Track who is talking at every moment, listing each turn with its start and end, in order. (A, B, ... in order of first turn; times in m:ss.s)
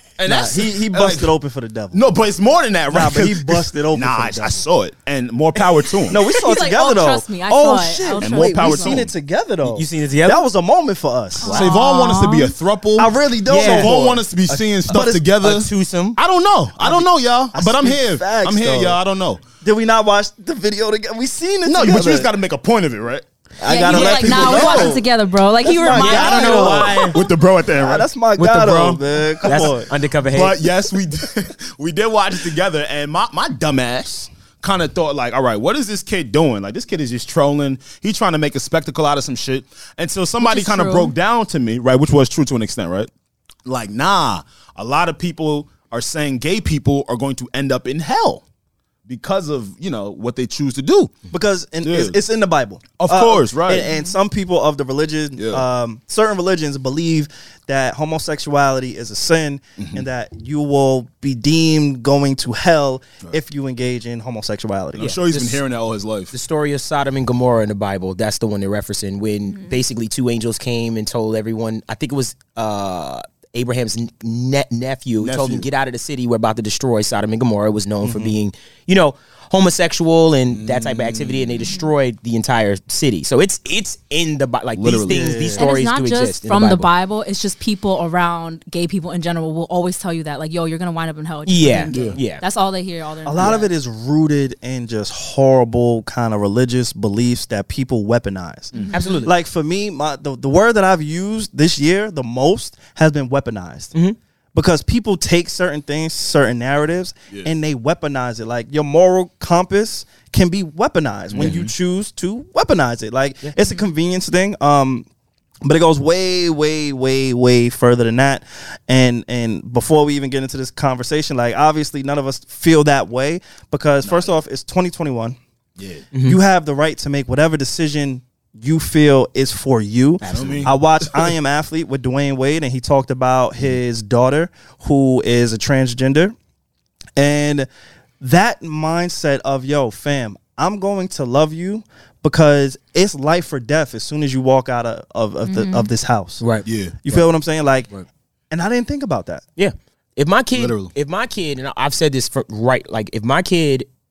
0:00.2-0:01.3 A
0:00.2-0:02.0 B
0:01.9-0:06.2 A
0:02.9-0:04.6 B
0:06.1-0:11.6 B
0:06.3-0:09.0 C
0:08.2-0:09.1 A
0:09.6-0:10.4 D
0:11.4-0:12.5 C
0:11.4-0:19.4 A
0:13.0-0:14.3 B
0:13.5-0:14.0 D
0:14.5-0:16.2 D
0:14.9-0:15.2 B
0:17.5-0:19.0 B
0:19.6-0:22.3 B
0:21.6-0:23.2 A
0:23.6-0:25.0 B
0:23.6-0:27.2 C
0:23.8-0:24.9 D
0:24.0-0:24.9 A
0:25.6-0:27.2 B
0:25.9-0:27.1 D
0:25.9-0:28.1 A
0:27.7-0:29.9 B
0:28.4-0:30.6 D
0:29.4-0:43.1 A
0:40.4-0:41.1 C
0:43.6-0:48.4 A
0:49.0-0:51.2 A
0:51.3-1:05.1 B
0:51.8-0:52.2 A
0:53.0-0:53.9 A
0:53.9-0:54.2 C
0:55.4-0:55.6 A
0:59.8-1:00.0 A
1:05.0-1:06.3 A
1:05.0-1:05.6 D
1:06.3-1:26.9 D
1:09.5-1:09.8 C
1:15.2-1:15.7 A
1:18.0-1:18.4 B
1:20.5-1:21.7 A
1:21.6-1:21.9 C
1:24.8-1:25.6 A
1:25.1-1:25.6 B
1:25.6-1:33.7 C
1:31.5-1:32.4 D
1:31.9-1:32.2 A
1:33.2-1:43.9 B
1:38.9-1:39.2 C
1:38.9-1:39.3 D
1:44.5-1:55.1 B
1:51.3-1:51.7 A
1:55.6-2:05.4 B
2:04.0-2:04.3 A
2:05.8-2:06.0 A
2:06.1-2:06.4 D
2:06.2-2:16.3 B
2:10.2-2:10.6 D
2:10.2-2:11.3 A
2:17.2-2:17.7 B
2:18.2-2:26.4 B
2:25.5-2:25.9 C
2:26.4-2:27.2 D
2:26.6-2:27.0 A
2:27.0-2:27.9 B
2:28.5-2:29.4 B
2:29.6-2:33.9 D
2:30.5-2:30.9 A